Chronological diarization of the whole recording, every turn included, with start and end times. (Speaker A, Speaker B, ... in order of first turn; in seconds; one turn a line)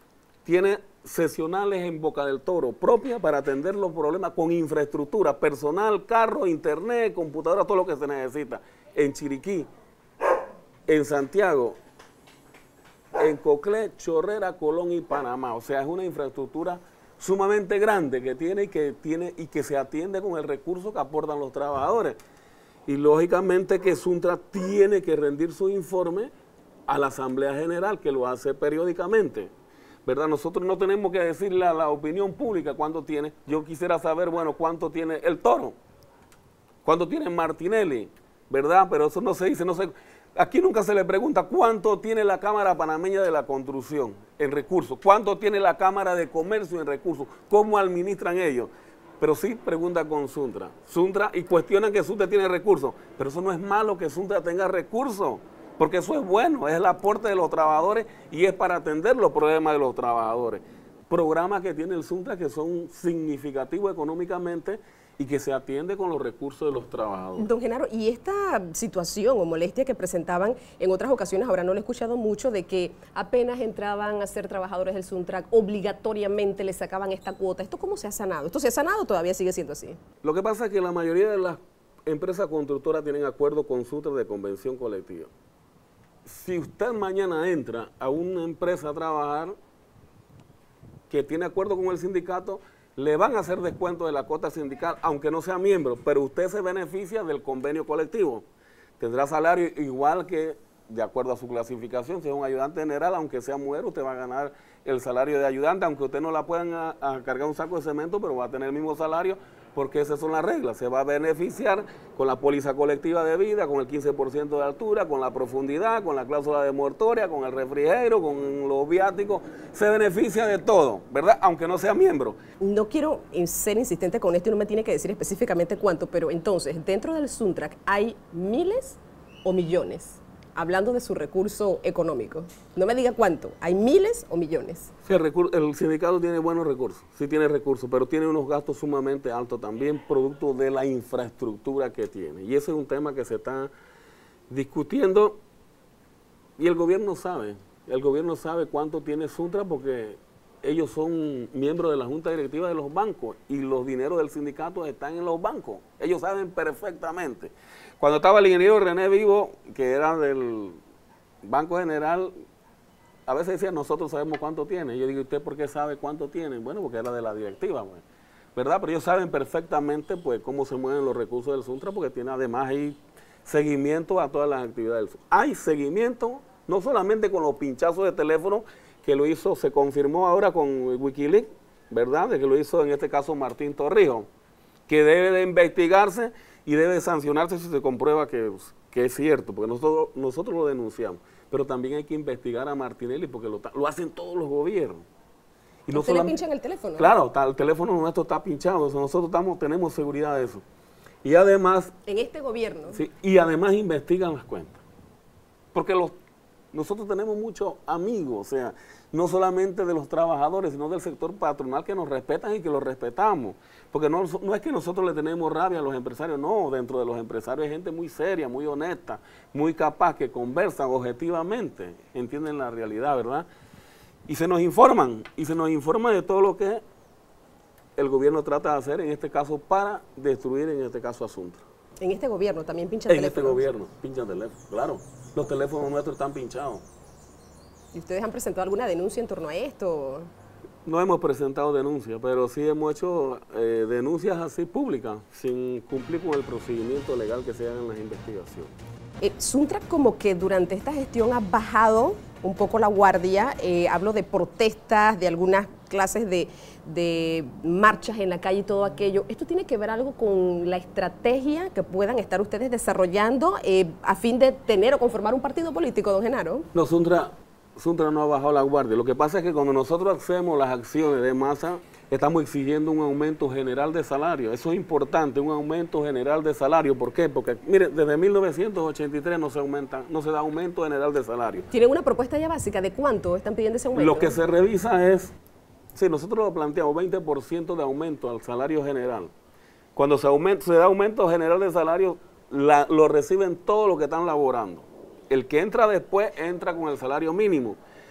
Speaker A: 0.5-9.7
Speaker A: 10.9-11.8
Speaker A: 13.2-22.2
Speaker A: 22.9-26.3
Speaker A: 26.9-29.5
Speaker A: 30.1-35.8
Speaker A: 36.8-67.5
Speaker B: 67.4-80.0
Speaker A: 80.2-85.3
Speaker A: 86.2-89.5
Speaker A: 91.1-98.5
Speaker A: 99.0-122.4
Speaker B: 122.6-134.9
Speaker A: 135.1-143.7
Speaker A: 144.5-145.4
Speaker A: 146.6-160.8
Speaker A: 161.4-162.3
Speaker A: 163.3-168.0
Speaker A: 168.6-184.3
Speaker A: 184.9-195.1
Speaker A: 195.9-196.3
Speaker B: 195.9-197.1
Speaker A: 197.0-200.6
Speaker A: 201.2-201.9
Speaker B: 202.1-203.0
Speaker A: 202.9-204.8
Speaker A: 205.7-206.2
Speaker A: 206.7-223.5
Speaker A: 224.3-226.8
Speaker A: 228.0-231.6
Speaker B: 232.0-233.7
Speaker A: 233.1-236.8
Speaker B: 237.9-240.3
Speaker A: 240.8-248.7
Speaker B: 249.2-266.7
Speaker A: 266.7-281.7
Speaker B: 281.7-284.4
Speaker A: 283.9-285.3
Speaker A: 285.9-289.3
Speaker A: 289.9-297.8